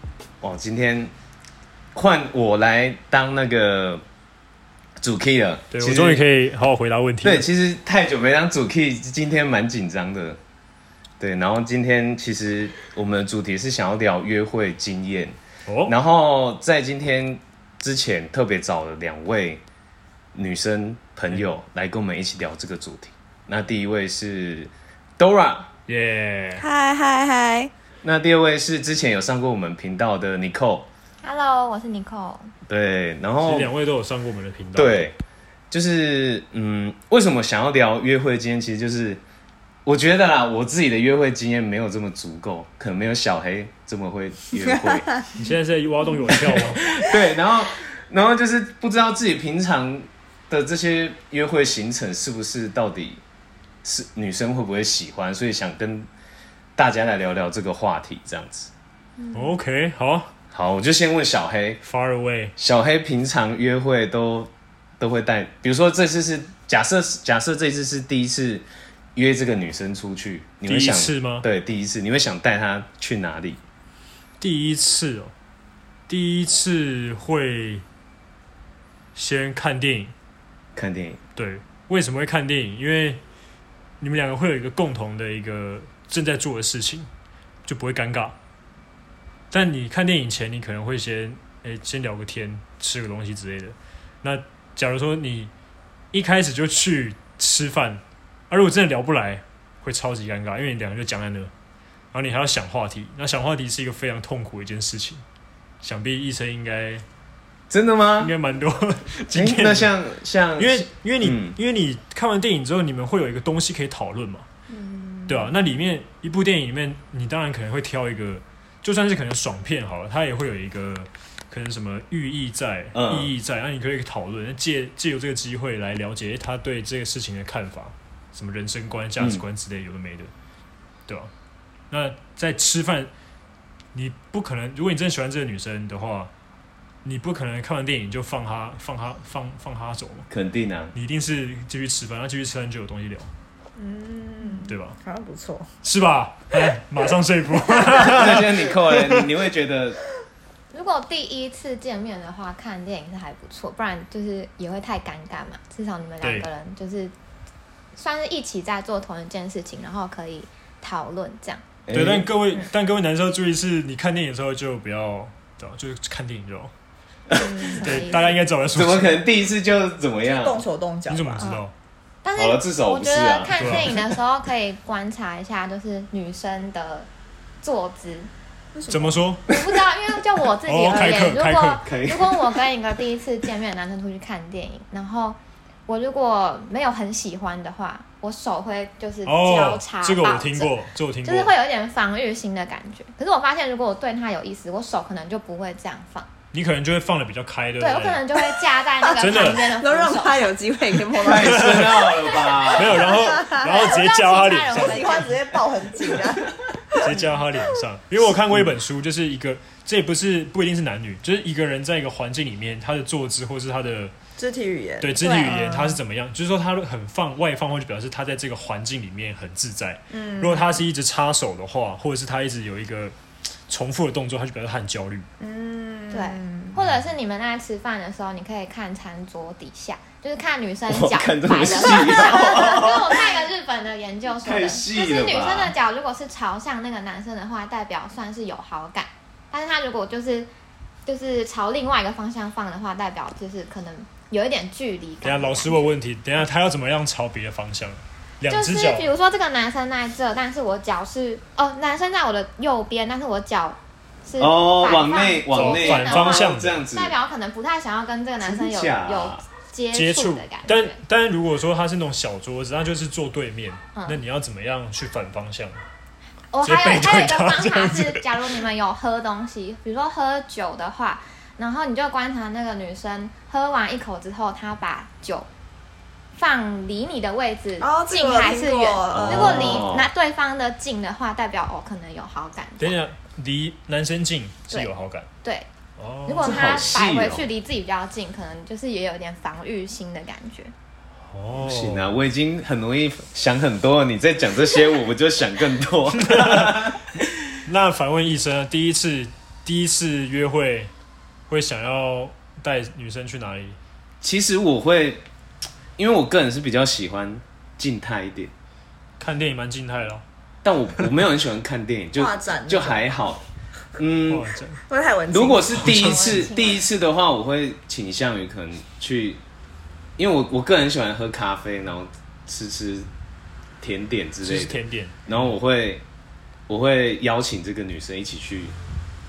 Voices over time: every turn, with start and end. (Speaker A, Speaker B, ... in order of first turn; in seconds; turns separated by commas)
Speaker A: 0.4-1.1, Speaker A: 1.9-4.0, Speaker A: 5.0-6.2, Speaker B: 5.7-7.5, Speaker A: 7.2-10.4, Speaker A: 11.2-19.6, Speaker B: 15.7-15.9, Speaker A: 20.3-25.7, Speaker B: 25.9-26.7, Speaker C: 26.6-27.7, Speaker A: 28.0-30.9, Speaker D: 31.2-32.5, Speaker A: 32.7-33.7, Speaker B: 33.4-35.0, Speaker A: 34.8-35.2, Speaker A: 35.7-39.2, Speaker A: 39.9-45.2, Speaker B: 45.4-46.8, Speaker A: 46.4-53.2, Speaker A: 53.8-56.1, Speaker A: 56.8-58.7, Speaker C: 59.2-59.5, Speaker B: 59.3-60.3, Speaker A: 60.5-61.8, Speaker B: 61.9-62.5, Speaker A: 62.6-73.6, Speaker B: 70.7-71.5, Speaker B: 74.4-75.3, Speaker B: 76.1-77.8, Speaker B: 79.2-80.1, Speaker A: 80.8-81.2, Speaker B: 81.4-83.2, Speaker B: 84.0-87.1, Speaker B: 87.7-88.4, Speaker B: 89.5-95.5, Speaker B: 96.1-101.5, Speaker B: 102.1-105.2, Speaker B: 105.8-107.0, Speaker A: 107.7-108.3, Speaker B: 108.2-109.9, Speaker A: 109.3-111.6, Speaker B: 110.6-114.5, Speaker C: 114.7-115.5, Speaker B: 115.3-130.3, Speaker A: 122.9-123.3, Speaker B: 131.9-133.1, Speaker B: 133.9-136.3, Speaker B: 137.1-140.3, Speaker A: 140.3-140.9, Speaker B: 140.9-143.3, Speaker C: 143.8-145.7, Speaker B: 144.7-145.0, Speaker B: 145.8-149.3, Speaker A: 148.0-150.0, Speaker D: 150.7-157.1, Speaker B: 156.2-156.5, Speaker D: 157.9-161.7, Speaker A: 161.9-162.3, Speaker B: 161.9-166.7, Speaker D: 167.3-168.4, Speaker B: 167.7-169.2, Speaker A: 168.7-170.6, Speaker C: 170.3-171.5, Speaker B: 171.1-171.7, Speaker D: 171.4-171.7, Speaker D: 172.2-177.1, Speaker A: 172.4-174.1, Speaker B: 173.6-173.9, Speaker D: 177.6-178.3, Speaker C: 178.8-179.3, Speaker B: 178.9-179.4, Speaker D: 179.5-196.3, Speaker B: 180.7-181.8, Speaker A: 181.8-182.5, Speaker B: 189.2-191.5, Speaker B: 196.5-198.2, Speaker D: 197.8-200.5, Speaker C: 199.0-202.1, Speaker B: 199.2-199.7, Speaker A: 201.2-203.2, Speaker B: 201.3-205.3, Speaker C: 203.0-204.0, Speaker D: 203.5-205.3, Speaker C: 204.8-207.2, Speaker B: 207.0-214.1, Speaker C: 214.4-216.0, Speaker B: 215.0-223.2, Speaker D: 215.2-215.6, Speaker C: 220.1-220.8, Speaker B: 223.7-225.3, Speaker C: 225.4-226.8, Speaker D: 226.1-240.5, Speaker A: 230.9-233.1, Speaker C: 232.1-232.7, Speaker A: 234.4-235.7, Speaker D: 241.1-245.9, Speaker B: 245.2-249.1, Speaker D: 248.5-261.0, Speaker A: 254.4-257.1, Speaker B: 255.5-256.8, Speaker A: 258.4-259.4, Speaker B: 259.9-265.8, Speaker D: 266.5-275.5, Speaker B: 266.6-268.3, Speaker D: 276.4-283.0, Speaker C: 277.8-279.9, Speaker A: 279.1-280.1, Speaker B: 282.8-285.3, Speaker D: 285.4-285.7, Speaker B: 286.0-286.9, Speaker D: 286.3-290.7, Speaker A: 286.4-287.5, Speaker B: 291.2-292.1, Speaker A: 291.5-297.6, Speaker B: 296.1-296.9, Speaker B: 297.6-300.9, Speaker B: 301.5-303.8, Speaker A: 304.2-305.2, Speaker A: 306.0-308.5, Speaker B: 309.2-310.2, Speaker A: 310.6-313.4, Speaker C: 312.1-313.1, Speaker A: 314.0-314.5, Speaker B: 314.3-314.8, Speaker C: 314.9-316.4, Speaker A: 315.3-319.4, Speaker B: 315.8-316.3, Speaker D: 315.8-316.9, Speaker A: 320.2-323.1, Speaker A: 323.8-326.0, Speaker B: 324.4-325.5, Speaker A: 326.7-328.8